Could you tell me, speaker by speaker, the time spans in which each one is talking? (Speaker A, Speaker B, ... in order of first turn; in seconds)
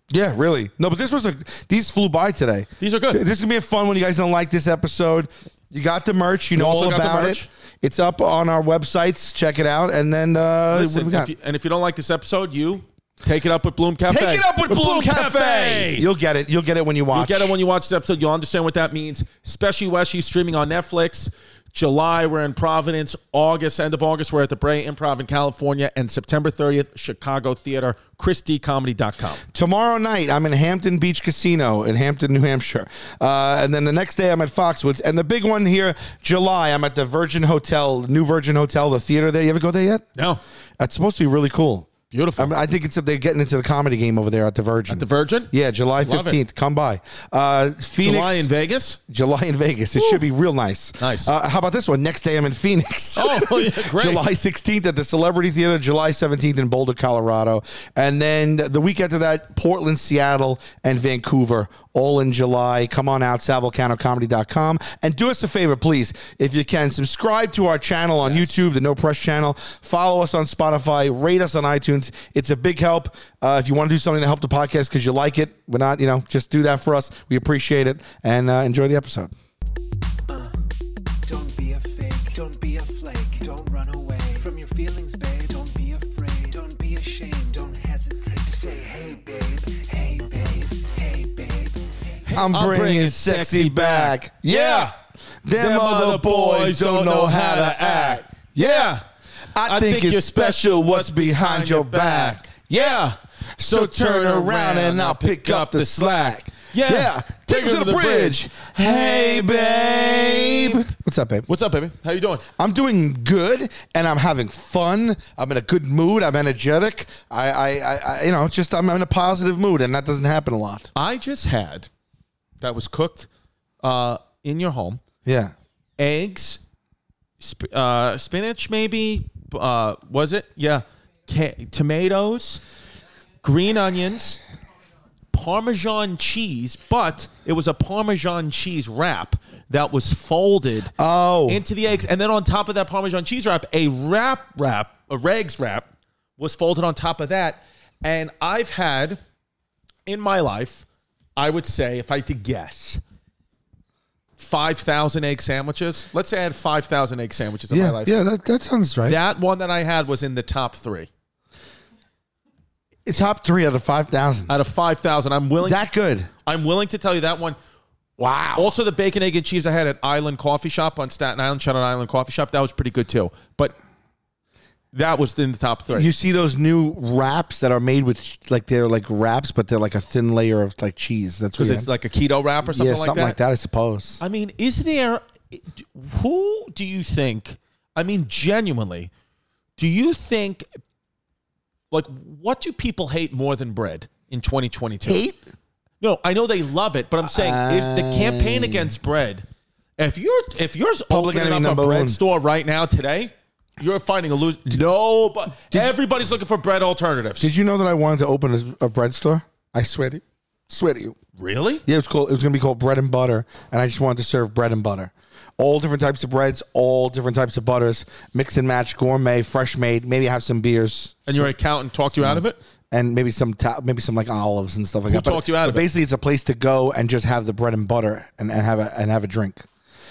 Speaker A: 0.1-11.3, 14.1-17.6, 29.5-40.1, 40.8-48.5, 49.1-79.3, 92.3-94.9, 95.4-99.0, 99.5-111.5, 112.6-120.9, 125.2-125.5, 141.0-141.6, 157.7-159.2, 163.1-164.5, 165.6-166.3, 168.2-168.7, 175.9-181.9, 182.7-184.2, 195.0-195.4, 197.2-198.9, 201.1-202.2, 205.7-205.9, 207.4-211.2, 211.9-221.5, 222.2-229.7
Speaker B: 2.8-3.2, 6.5-7.5, 10.7-16.1, 17.1-29.4, 40.2-40.4, 42.1-42.5, 44.9-46.4, 48.0-49.0, 50.0-50.2, 51.0-51.3, 53.2-54.2, 68.2-68.6, 92.2-94.9, 95.6-99.0, 99.6-110.9, 111.5-112.5, 121.0-121.9, 122.6-123.3, 123.8-125.0, 126.0-126.6, 127.4-132.6, 133.4-134.4, 135.3-140.9, 141.5-145.9, 146.4-149.2, 150.1-153.0, 154.4-158.1, 159.1-161.1, 164.5-165.8, 166.4-167.6, 168.6-173.8, 174.9-176.1, 181.6-183.4, 184.2-189.1, 189.8-190.7, 191.9-195.2, 196.0-199.5, 200.0-207.5, 211.4-211.8, 221.3-222.6, 225.1-225.9
Speaker C: 80.3-80.6, 81.3-92.2